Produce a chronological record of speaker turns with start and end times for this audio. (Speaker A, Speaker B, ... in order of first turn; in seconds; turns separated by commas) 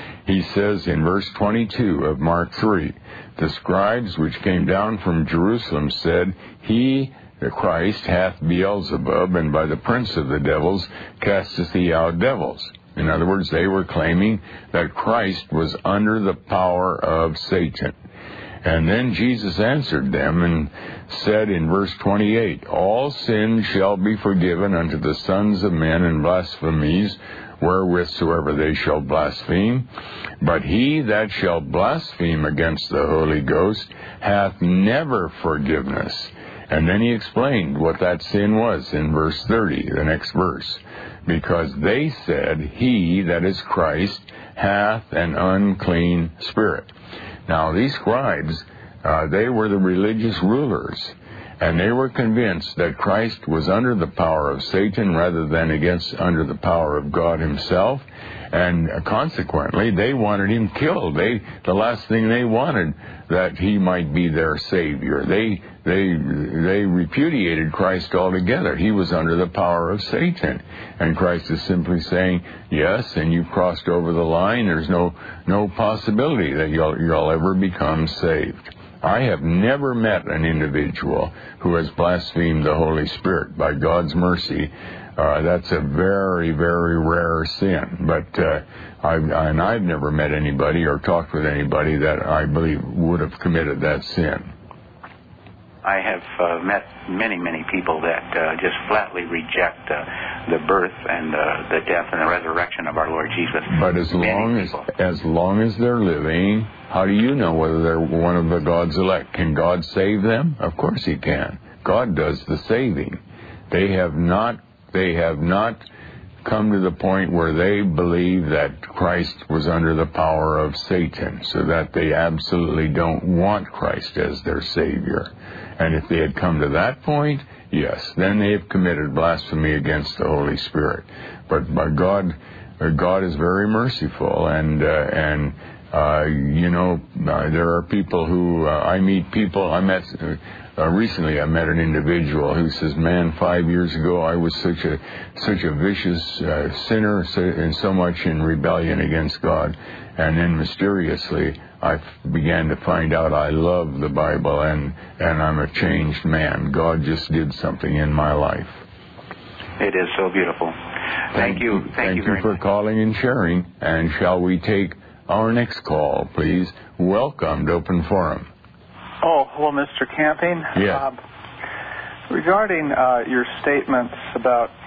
Speaker A: 0.2-17.9, Speaker A: 18.6-29.9, Speaker A: 30.4-46.9, Speaker A: 47.5-94.5, Speaker B: 95.8-104.8, Speaker A: 103.7-115.8, Speaker A: 116.4-158.8, Speaker B: 159.8-160.8, Speaker B: 161.3-162.6, Speaker A: 161.3-168.5, Speaker C: 169.2-171.2, Speaker A: 170.7-171.0, Speaker C: 172.3-174.7